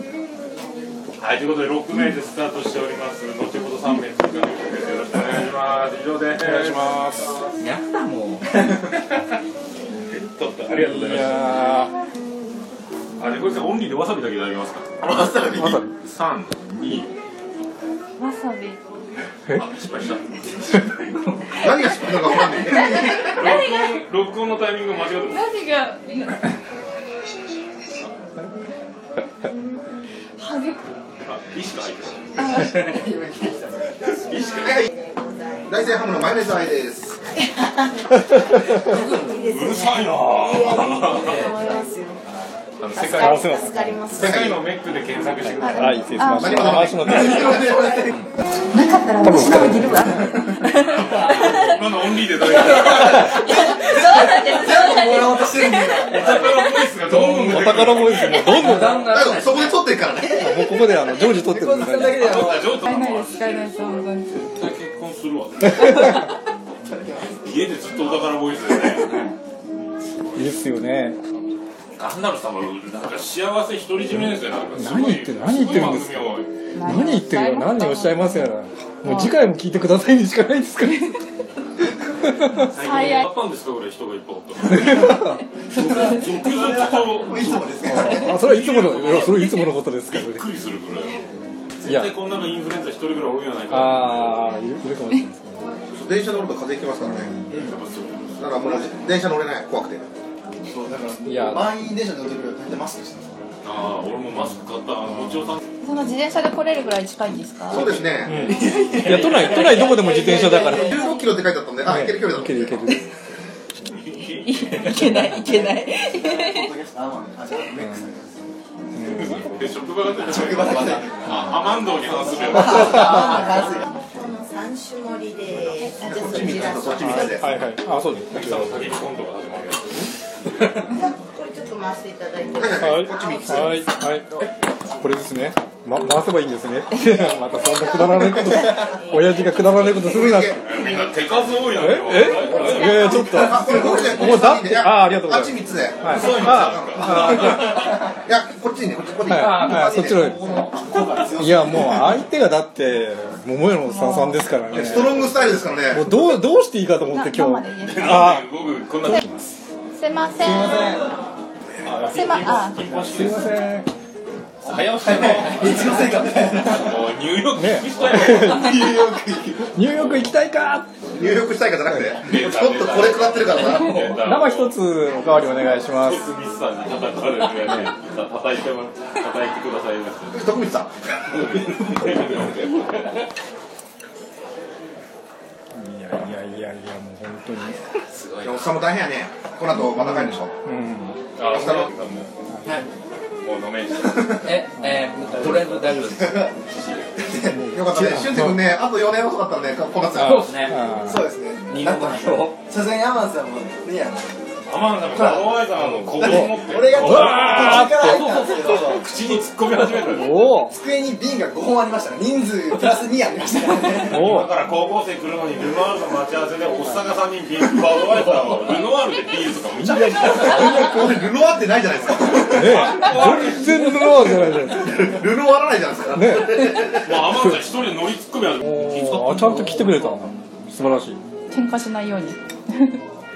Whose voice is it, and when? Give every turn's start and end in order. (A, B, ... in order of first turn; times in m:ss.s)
0:01.2-0:07.5 A
0:06.4-0:07.4 B
0:07.6-0:08.6 C
0:08.6-0:09.2 A
0:10.1-0:11.8 A
0:10.7-0:11.9 B
0:13.2-0:17.1 A
0:15.6-0:15.8 B
0:18.2-0:18.8 D
0:19.5-0:20.9 A
0:21.6-0:23.4 E
0:22.6-0:24.0 D
0:23.3-0:25.6 A
0:25.3-0:26.5 D
0:30.4-0:30.8 D
0:31.2-0:32.5 A
0:32.4-0:32.9 D
0:32.4-0:33.9 F
0:34.0-0:36.7 G
0:34.2-0:34.9 A
0:34.6-0:34.9 E
0:35.7-0:37.2 E
0:37.4-0:42.2 G
0:38.3-0:39.0 B
0:38.9-0:39.4 C
0:39.3-0:41.5 A
0:41.3-0:41.9 D
0:42.8-0:43.4 A
0:42.9-0:44.3 G
0:43.1-0:44.0 B
0:44.2-0:44.6 E
0:44.2-0:46.2 A
0:45.5-0:47.6 B
0:45.6-0:46.9 D
0:46.2-0:48.1 E
0:47.0-0:48.1 F
0:48.7-0:51.8 D
0:49.2-0:50.4 B
0:50.7-0:53.5 A
0:52.4-0:56.6 F
0:53.0-0:56.0 D
0:56.1-0:59.0 A
0:57.1-0:57.9 C
0:57.4-0:59.1 B
0:58.5-0:59.8 C
0:59.0-1:00.6 E
1:00.4-1:02.4 B
1:01.1-1:02.8 F
1:01.9-1:02.6 C
1:02.2-1:06.3 A
1:02.7-1:04.5 D
1:05.8-1:06.1 B
1:06.9-1:07.4 F
1:07.4-1:09.2 A
1:10.4-1:11.2 B
1:12.0-1:16.5 A
1:14.8-1:16.3 B
1:16.8-1:18.5 D
1:16.8-1:21.2 B
1:19.0-1:19.4 D
1:22.2-1:22.7 B
1:22.8-1:23.2 D
1:22.8-1:31.2 A
1:22.8-1:23.2 F
1:24.6-1:25.4 B
1:25.7-1:28.4 F
1:27.8-1:30.4 B
1:31.8-1:34.3 A
1:31.8-1:32.1 B
1:33.7-1:35.5 B
1:35.9-1:37.4 E
1:37.0-1:37.5 B
1:37.5-1:38.4 A
1:38.4-1:40.1 E
1:40.7-1:43.3 F
1:41.2-1:41.7 B
1:43.6-1:45.6 A
1:45.8-1:48.0 D
1:47.7-1:48.5 E
1:48.2-1:51.0 B
1:48.4-1:50.9 F
1:50.4-1:51.3 D
1:50.7-1:52.9 E
1:51.8-1:53.0 B
1:54.0-1:55.1 A
1:54.4-1:56.7 D
1:56.0-1:58.4 F
1:58.9-1:59.7 B
1:59.1-2:03.8 A
2:00.2-2:03.8 F
2:02.4-2:07.4 G
2:06.0-2:07.4 E
2:07.0-2:08.9 B
2:08.3-2:10.1 A
2:10.9-2:14.4 G
2:12.6-2:13.8 E
2:12.8-2:14.3 B
2:15.0-2:20.6 B
2:17.9-2:19.7 G
2:19.8-2:20.6 E
2:20.6-2:23.2 A
2:21.8-2:27.8 B
2:22.6-2:30.3 E
2:23.4-2:24.1 F
2:26.1-2:27.8 A
2:29.3-2:30.4 B
2:29.3-2:30.8 C
2:30.7-2:32.2 F
2:31.4-2:35.2 B
2:33.8-2:34.5 D
2:34.7-2:36.1 E
2:34.7-2:35.3 A
2:35.9-2:38.5 B
2:37.1-2:38.3 D
2:37.8-2:39.2 A
2:39.0-2:39.5 B
2:40.0-2:41.0 D
2:40.4-2:41.1 F
2:41.8-2:43.5 A
2:41.9-2:42.9 D
2:43.0-2:43.9 B
2:44.6-2:48.9 A
2:45.0-2:47.0 F
2:47.6-2:48.9 B
2:48.1-2:49.7 F
2:49.7-2:50.9 B
2:50.0-2:50.3 A
2:51.1-2:54.2 E
2:52.2-2:54.8 A
2:53.7-2:54.2 C
2:54.2-2:56.3 B
2:56.0-3:00.4 A
2:57.6-2:57.9 B
3:00.3-3:00.9 E
3:01.2-3:03.3 A
3:05.7-3:07.8 B
3:07.7-3:08.7 C
3:08.4-3:10.5 E
3:09.9-3:11.2 B
3:11.4-3:12.3 A
3:11.5-3:11.9 E
3:13.4-3:14.6 A
3:14.4-3:16.5 C
3:15.4-3:16.6 F
3:16.7-3:17.1 A
3:17.2-3:17.5 F
3:17.4-3:18.6 B
3:17.7-3:20.5 E
3:20.2-3:20.9 C
3:20.2-3:21.3 B
3:21.0-3:24.3 F
3:21.7-3:22.6 C
3:21.8-3:22.4 E
3:24.7-3:30.4 A
3:25.1-3:29.1 F
3:26.4-3:28.2 B
3:30.0-3:30.8 B
3:30.2-3:34.3 F
3:34.0-3:40.8 A
3:34.1-3:34.5 B
3:39.9-3:41.0 B
3:39.9-3:43.4 E
3:42.3-3:44.1 A
3:42.5-3:45.1 B
3:44.0-3:47.4 E
3:46.1-3:46.8 B
3:47.0-3:49.8 A
3:48.7-3:51.2 B
3:49.3-3:50.1 C
3:51.5-3:53.0 D